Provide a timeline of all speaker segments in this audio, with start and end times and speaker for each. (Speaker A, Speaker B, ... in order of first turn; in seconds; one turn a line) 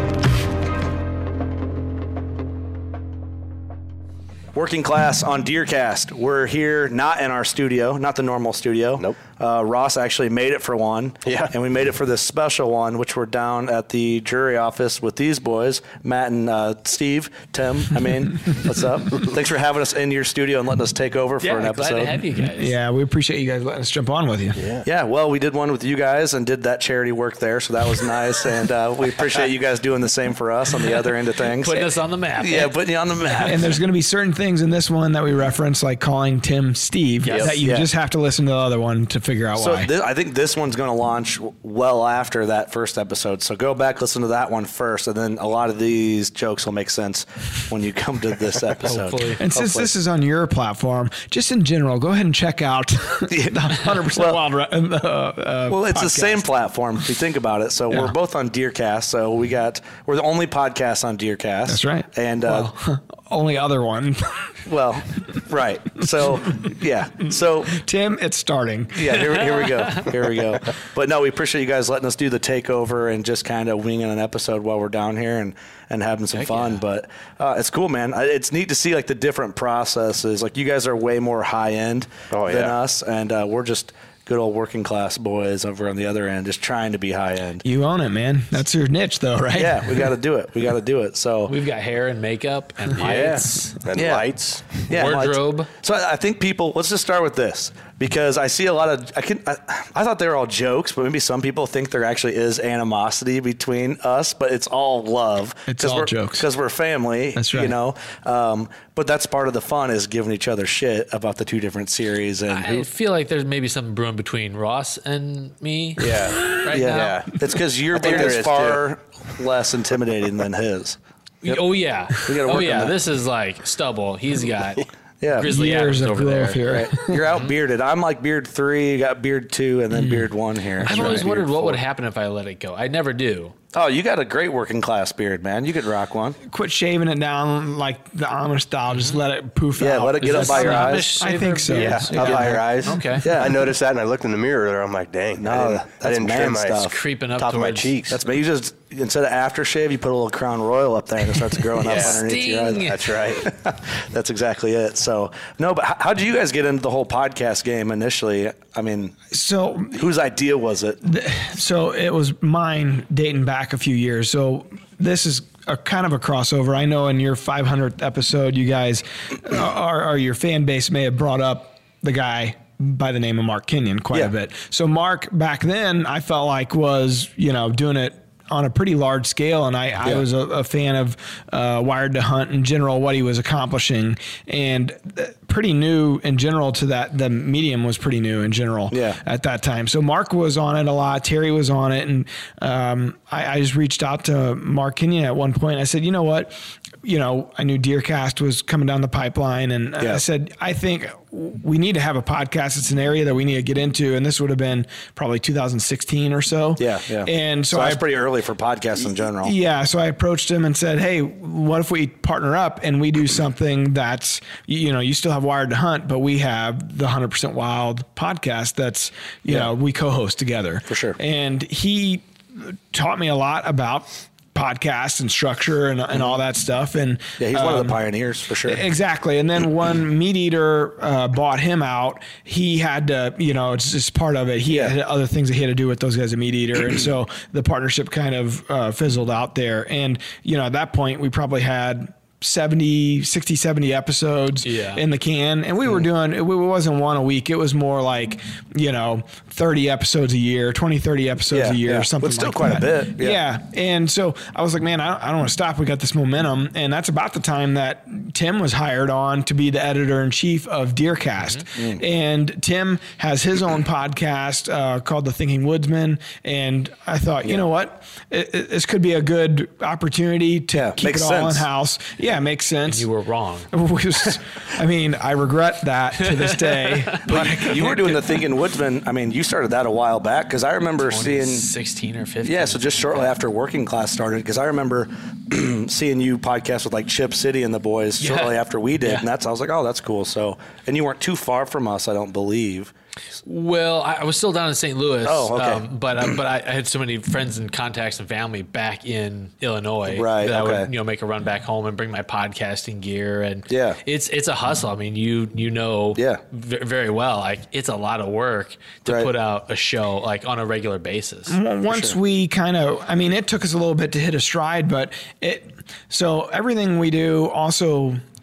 Speaker A: 4.5-22.1
Speaker B: 11.2-11.5
Speaker C: 21.4-22.7
Speaker D: 22.4-24.6
Speaker B: 24.6-24.9
Speaker A: 24.9-31.9
Speaker C: 31.6-33.5
Speaker A: 32.4-33.7
Speaker D: 33.4-39.9
Speaker B: 37.3-37.6
Speaker A: 37.4-37.9
Speaker A: 39.6-49.9
Speaker C: 48.8-49.4
Speaker D: 49.4-56.4
Speaker A: 53.3-54.4
Speaker A: 55.7-62.7
Speaker D: 61.7-64.5
Speaker A: 64.7-67.8
Speaker D: 67.7-69.2
Speaker A: 68.9-87.7
Speaker C: 69.5-70.0
Speaker C: 76.3-76.8
Speaker B: 82.3-82.8
Speaker D: 87.6-90.1
Speaker A: 89.5-91.5
Speaker C: 91.5-93.8
Speaker B: 93.0-94.9
Speaker A: 93.9-94.3
Speaker A: 94.9-112.9
Speaker C: 94.9-95.7
Speaker D: 105.7-106.5
Speaker D: 107.3-107.8
Speaker C: 112.5-117.2
Speaker B: 116.0-117.4
Speaker D: 116.3-116.6
Speaker A: 116.7-121.6
Speaker B: 117.9-118.9
Speaker C: 121.4-126.6
Speaker A: 122.2-123.0
Speaker A: 125.2-125.5
Speaker D: 125.4-127.2
Speaker A: 126.7-131.8
Speaker D: 129.9-130.3
Speaker D: 130.8-131.2
Speaker C: 130.8-133.6
Speaker A: 133.7-136.4
Speaker D: 136.4-142.7
Speaker C: 138.9-139.2
Speaker A: 139.8-141.2
Speaker C: 140.2-143.3
Speaker B: 141.8-148.2
Speaker A: 142.2-142.6
Speaker A: 143.2-143.6
Speaker A: 145.4-146.9
Speaker C: 146.9-148.0
Speaker A: 148.1-159.2
Speaker B: 151.8-152.2
Speaker C: 151.9-153.2
Speaker B: 152.8-153.5
Speaker D: 159.3-160.1
Speaker A: 160.0-161.0
Speaker D: 161.0-208.0
Speaker A: 188.9-189.2
Speaker A: 206.8-209.5
Speaker D: 209.4-228.0
Speaker A: 220.9-221.2
Speaker A: 227.4-228.8
Speaker D: 228.7-273.1
Speaker C: 244.6-245.0
Speaker A: 251.5-253.4
Speaker A: 270.8-271.6
Speaker C: 272.9-273.7
Speaker D: 273.7-278.4
Speaker C: 276.2-277.0
Speaker A: 277.3-281.7
Speaker C: 281.0-283.3
Speaker A: 282.4-292.9
Speaker C: 288.2-289.3
Speaker C: 293.4-311.6
Speaker A: 295.2-295.8
Speaker A: 300.1-300.9
Speaker A: 303.7-304.0
Speaker A: 306.2-306.4
Speaker D: 311.5-318.2